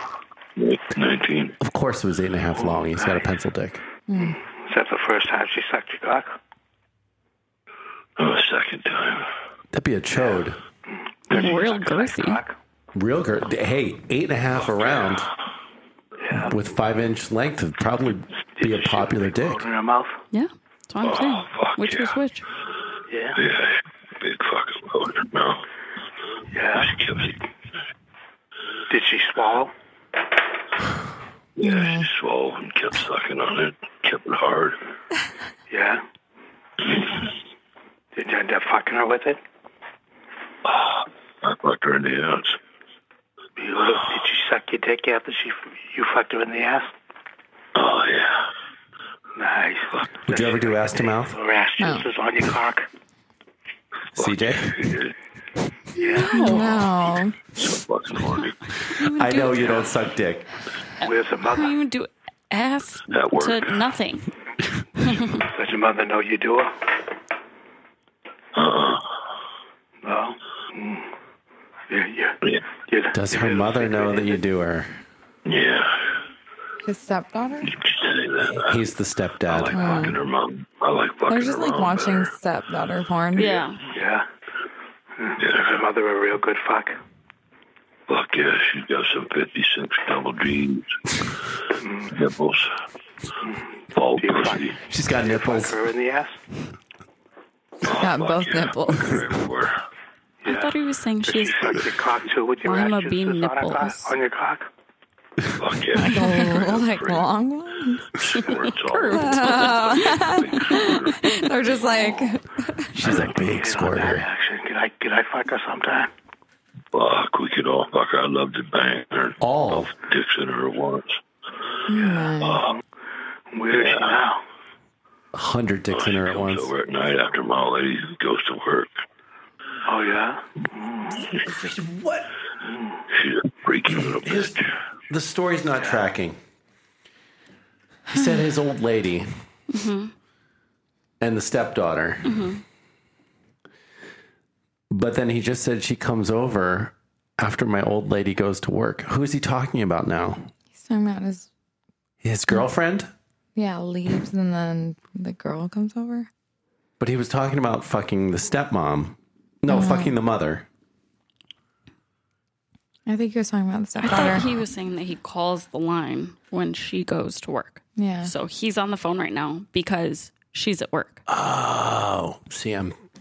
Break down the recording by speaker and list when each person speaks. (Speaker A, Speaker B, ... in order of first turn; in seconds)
Speaker A: 0.6-1.5, 8.2-9.3, 21.0-22.2, 23.3-25.6, 26.7-27.4, 31.6-34.8, 40.6-42.6, 47.7-48.5, 54.1-55.1, 57.5-58.6, 63.1-63.9, 68.5-69.1, 75.5-76.2, 77.6-78.8, 79.5-82.3, 85.4-85.7, 88.1-90.9, 92.1-92.7, 93.9-94.8, 97.8-99.8, 105.6-107.3, 108.2-111.9, 116.9-121.2, 122.4-122.7, 123.7-124.2, 125.9-129.0, 133.1-134.7
Speaker B: 1.6-3.8, 9.7-10.6, 12.9-15.3, 16.4-19.7, 50.3-51.4, 54.1-54.8, 59.1-60.5, 73.1-75.0, 78.6-80.0, 94.8-95.8, 112.9-114.2, 119.4-119.9, 125.3-126.7, 131.5-132.3, 134.2-136.4, 138.1-139.3, 141.2-142.4, 144.9-150.5, 152.2-153.1, 157.0-160.7, 171.3-172.9
Speaker C: 2.5-3.3, 4.2-6.3, 11.3-12.5, 16.2-16.5, 18.6-20.2, 23.1-23.4, 26.5-27.0, 28.9-29.7, 35.7-36.0, 38.1-39.4, 43.6-46.9, 49.4-52.9, 56.0-56.5, 61.0-61.8, 65.4-66.7, 70.0-71.1, 71.9-74.4, 83.4-84.2, 85.2-87.0, 91.8-92.1, 94.2-96.4, 100.4-104.7, 113.0-116.1, 122.0-122.2, 123.5-124.4, 129.8-131.3, 132.6-132.9, 135.7-136.1
Speaker D: 4.1-4.3, 31.6-32.1, 51.8-52.0, 56.2-57.4, 76.8-77.7, 79.7-80.2, 81.3-83.6, 98.0-99.4, 106.0-108.1, 109.1-113.0, 121.9-122.6, 150.7-151.5, 153.6-156.3, 159.7-160.2, 163.1-164.5, 167.9-168.3
Speaker E: 11.3-12.4, 20.3-22.4, 56.2-56.9, 58.4-59.9, 61.0-64.3, 65.0-65.3, 83.3-83.8, 100.4-101.8, 102.6-104.2, 108.4-110.3, 139.7-140.1, 142.2-142.6, 164.0-171.2